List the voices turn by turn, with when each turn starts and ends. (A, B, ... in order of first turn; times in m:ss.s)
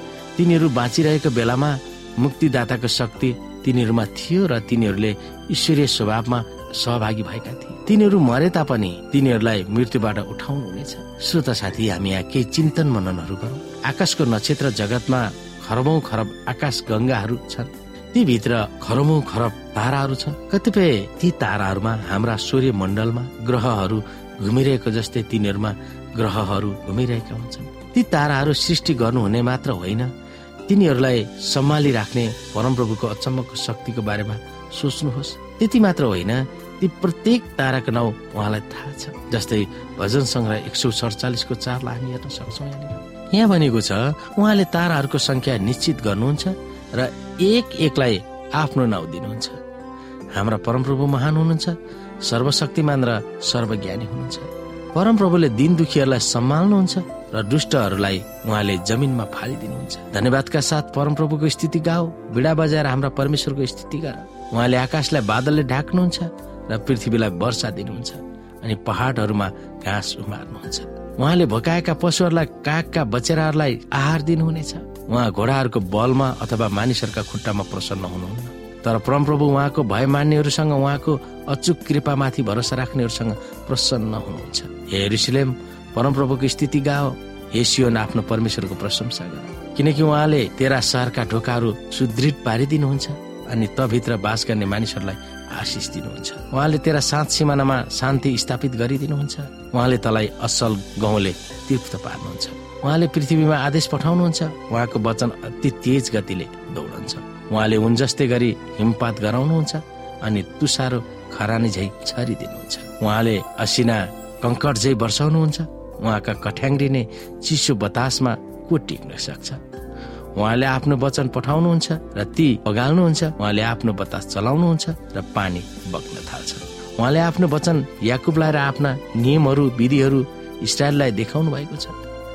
0:00.4-0:30.1 A
0:30.7-0:49.6 A
0:50.3-1:59.6 A
2:00.3-2:12.1 A